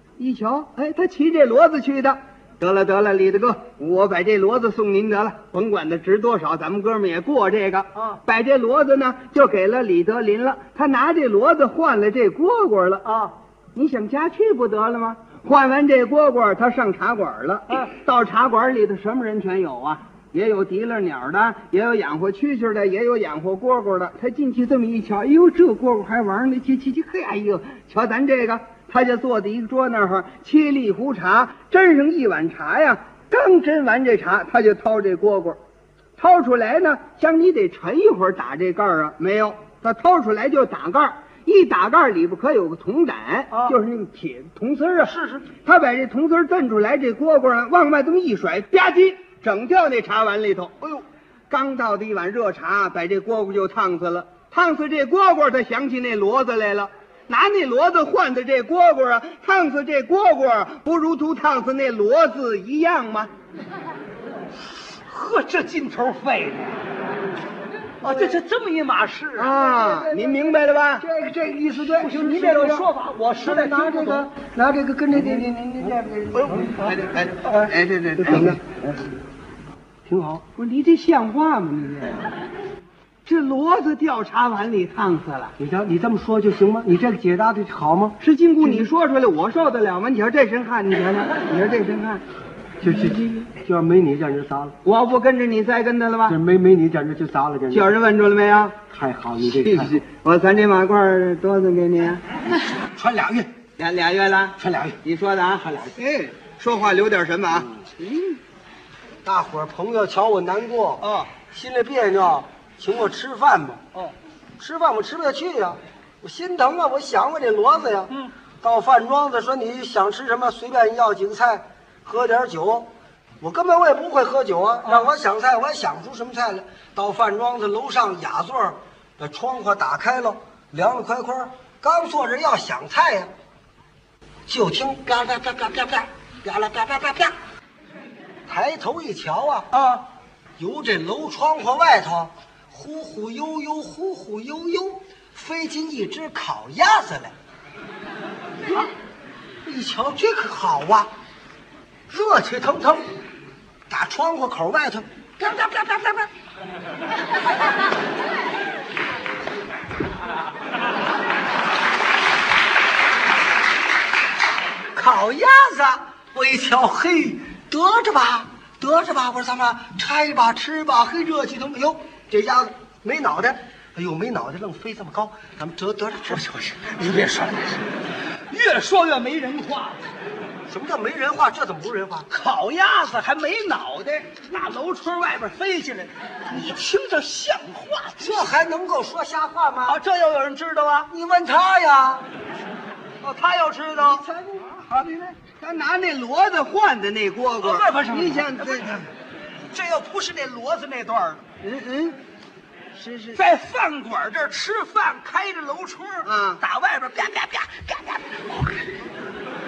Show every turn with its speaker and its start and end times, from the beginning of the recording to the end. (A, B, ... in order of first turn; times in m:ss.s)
0:00.2-0:13.1 A
0:07.9-0:08.2 B
0:13.0-0:13.3 B
0:13.7-0:35.6 A
0:36.2-0:50.8 A
0:45.0-0:45.5 B
0:51.5-1:03.3 A
1:05.1-1:06.8 B
1:08.0-1:09.6 B
1:08.0-1:08.4 C
1:09.4-1:11.1 A
1:09.5-1:12.8 C
1:11.8-1:14.3 B
1:13.4-1:18.8 C
1:15.1-1:16.2 A
1:16.3-1:17.0 B
1:16.8-1:18.8 A
1:20.0-1:20.4 C
1:20.6-1:22.3 A
1:23.2-1:25.6 A
1:25.6-1:28.8 C
1:28.2-1:32.2 A
1:32.8-1:34.7 C
1:34.8-1:36.4 A
1:36.2-1:37.9 C
1:37.7-1:38.8 A
1:38.9-1:40.0 C
1:39.5-1:42.2 A
1:43.0-1:43.5 C
1:43.8-1:48.4 A
1:44.6-1:44.9 C
1:49.2-1:53.8 C
1:51.0-1:51.3 B
1:54.6-2:13.3 C
2:14.5-2:17.4 C
2:18.5-2:19.7 C
2:19.7-2:20.0 B
2:20.6-2:27.3 C
2:29.6-2:31.1 C
2:32.1-2:33.1 C
2:33.9-2:36.2 C
2:44.9-2:56.4 C
2:56.2-2:57.8 B
2:58.5-3:00.1 B
3:00.7-3:02.3 C
3:02.3-3:08.5 B
3:08.2-3:10.0 C
3:09.8-3:11.1 B
3:11.1-3:12.2 C
3:13.2-3:14.2 B
3:13.9-3:14.9 C
3:15.0-3:15.3 B
3:15.4-3:19.0 A
3:17.6-3:19.1 B
3:19.7-3:21.4 B
3:21.6-3:22.2 A
3:23.0-3:23.4 A
3:23.3-3:29.0 B
3:26.2-3:26.6 A